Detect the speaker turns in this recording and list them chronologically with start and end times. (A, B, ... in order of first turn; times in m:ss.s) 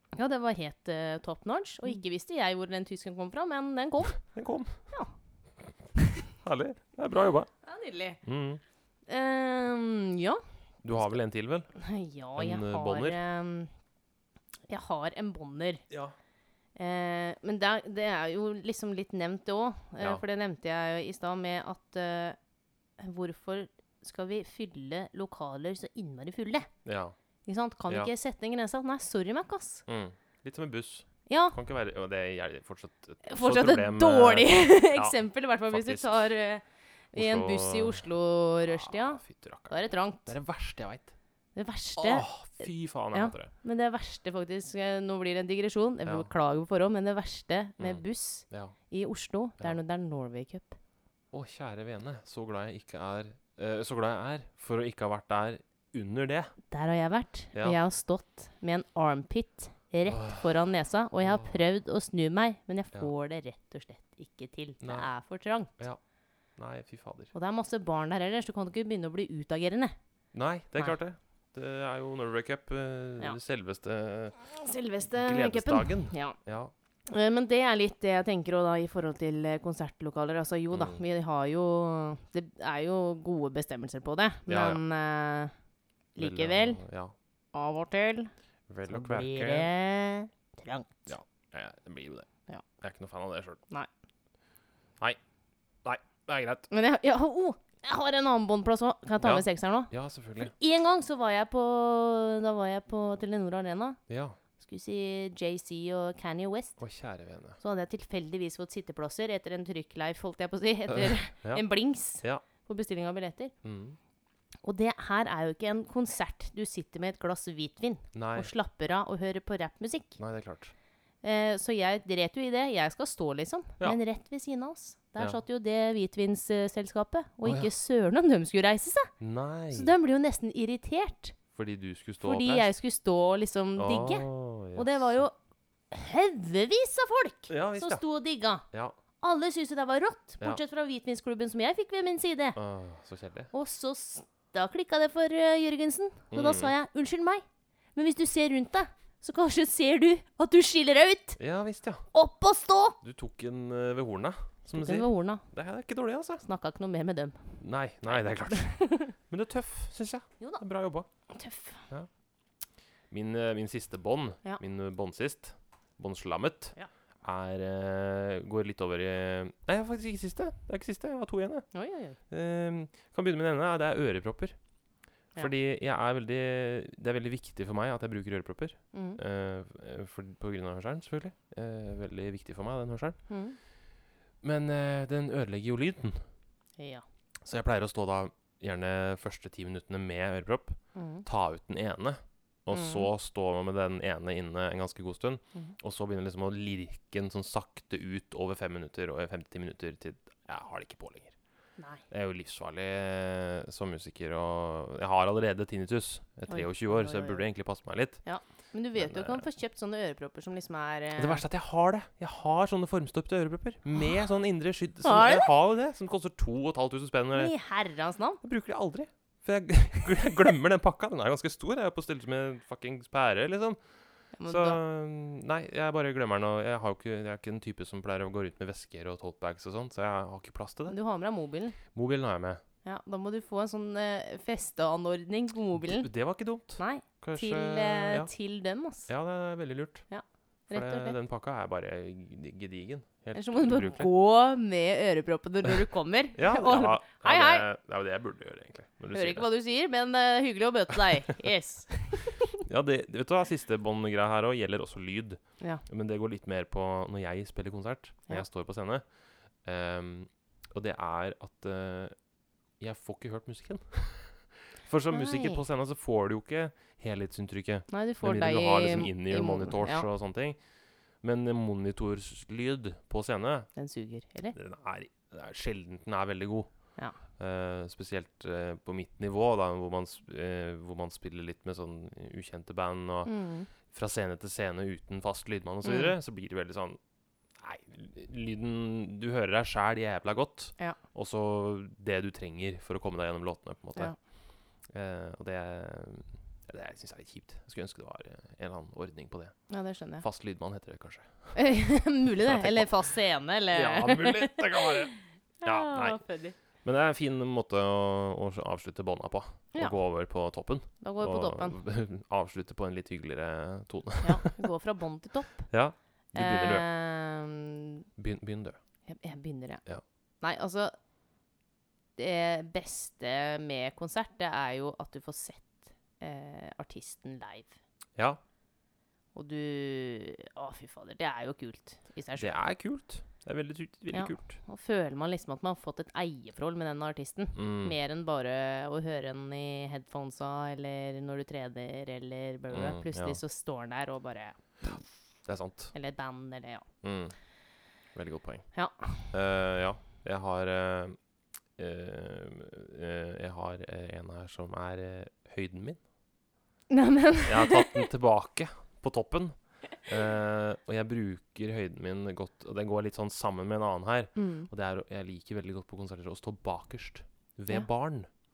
0:00.1-0:04.2 A
0:04.2-0:04.8 B
0:06.4-0:07.5 B
0:07.6-0:08.2 A
0:08.2-0:08.6 B
0:09.1-0:10.4 A
0:10.8-0:11.7 B
0:11.8-0:13.7 A
0:12.4-0:13.2 B
0:14.7-0:15.8 A
0:15.9-0:16.2 B
0:16.8-0:22.4 A
0:23.0-0:26.7 A
0:26.8-0:27.2 B
0:27.5-0:29.8 A
0:29.9-0:36.3 B
0:31.3-0:31.6 A
0:33.2-0:40.3 A
0:37.1-0:38.1 B
0:38.6-0:41.1 B
0:41.6-0:50.8 A
0:42.0-0:43.5 B
0:47.8-0:48.8 B
0:51.3-0:56.5 B
0:56.7-1:05.7 A
0:57.5-0:57.8 B
1:00.1-1:00.5 B
1:01.2-1:01.6 B
1:04.8-1:05.1 B
1:06.6-1:07.3 B
1:07.3-1:10.0 A
1:10.3-1:14.4 B
1:14.5-1:16.4 A
1:15.1-1:16.7 B
1:17.1-1:25.5 A
1:20.7-1:21.0 B
1:24.5-1:24.8 B
1:26.2-1:26.8 A
1:26.2-1:27.1 B
1:27.5-1:28.3 A
1:28.7-1:29.7 B
1:28.9-1:31.0 A
1:31.1-1:32.3 B
1:32.8-1:33.6 B
1:35.8-1:36.7 B
1:36.7-1:44.0 A
1:39.2-1:40.5 B
1:44.1-1:44.4 B
1:44.6-1:46.8 A
1:46.8-1:47.6 B
1:47.6-1:53.5 A
1:50.9-1:52.4 B
1:53.6-1:54.0 B
1:54.6-2:00.2 A
1:58.1-1:58.5 B
2:00.2-2:00.7 B
2:01.2-2:09.1 A
2:07.4-2:07.7 B
2:09.2-2:09.9 B
2:09.7-2:11.4 A
2:11.5-2:12.7 B
2:12.2-2:15.3 A
2:13.8-2:15.2 B
2:15.9-2:18.7 A
2:17.5-2:18.0 B
2:18.7-2:19.0 B
2:19.2-2:22.6 A
2:22.6-2:23.5 B
2:23.5-2:27.4 A
2:26.3-2:26.7 B
2:28.0-2:31.4 A
2:31.4-2:32.1 B
2:32.1-2:33.0 A
2:33.0-2:36.5 B
2:34.7-2:35.4 A
2:36.4-2:39.2 A
2:37.6-2:41.1 B
2:41.3-2:41.9 A
2:43.1-2:51.7 B
2:51.7-2:52.2 A
2:52.3-2:54.6 B
2:55.4-3:03.2 B
2:58.9-2:59.2 A
3:03.3-3:03.6 A
3:04.4-3:06.2 B
3:06.8-3:07.0 A
3:07.4-3:21.4 B
3:11.0-3:11.3 A
3:12.7-3:13.1 A
3:21.8-3:22.0 A
3:22.1-3:28.2 B
3:26.5-3:27.4 A
3:28.2-3:31.4 A
3:29.0-3:29.4 B
3:31.2-3:37.5 B
3:35.0-3:35.5 A
3:37.3-3:38.4 A
3:38.4-3:43.8 B
3:44.4-3:44.8 A
3:44.5-3:51.0 B
3:50.9-3:51.8 A
3:51.9-3:52.6 B
3:52.8-3:56.1 A
3:55.8-3:58.3 B
3:56.8-3:59.1 A
3:59.1-4:00.0 B
4:00.1-4:01.2 A
4:00.7-4:04.1 B
4:03.4-4:07.6 A
4:06.4-4:09.5 B
4:09.1-4:12.6 A
4:12.6-4:19.0 B
4:19.6-4:22.2 B
4:22.8-4:30.6 B
4:25.1-4:25.6 A
4:27.9-4:30.1 A
4:31.2-4:33.7 B
4:33.8-4:34.6 A
4:34.5-4:36.7 B
4:37.4-4:43.3 B
4:43.3-4:43.7 A
4:43.8-4:47.0 B
4:45.8-4:46.2 A
4:47.6-4:54.1 B
4:54.9-4:59.6 B
4:59.7-5:00.2 A
5:00.2-5:01.6 B
5:01.6-5:06.6 A
5:02.4-5:03.1 B
5:03.7-5:05.1 B
5:05.6-5:06.2 B
5:06.8-5:14.6 B
5:11.0-5:11.8 A
5:14.2-5:15.7 A
5:15.7-5:16.8 B
5:16.4-5:18.1 A
5:18.2-5:18.8 B
5:19.1-5:19.8 A
5:20.4-5:20.9 A
5:22.2-5:27.8 A
5:29.3-5:32.6 A
5:32.4-5:34.6 B
5:34.1-5:45.0 A
5:37.6-5:38.0 B
5:42.7-5:43.4 B
5:44.8-5:45.9 B
5:45.9-5:46.9 A
5:47.0-5:47.4 B
5:48.1-5:48.7 B
5:48.7-5:49.3 A
5:49.3-5:51.2 B
5:51.8-5:56.0 B
5:56.9-5:58.1 A
5:57.5-6:08.3 B
6:04.4-6:04.7 A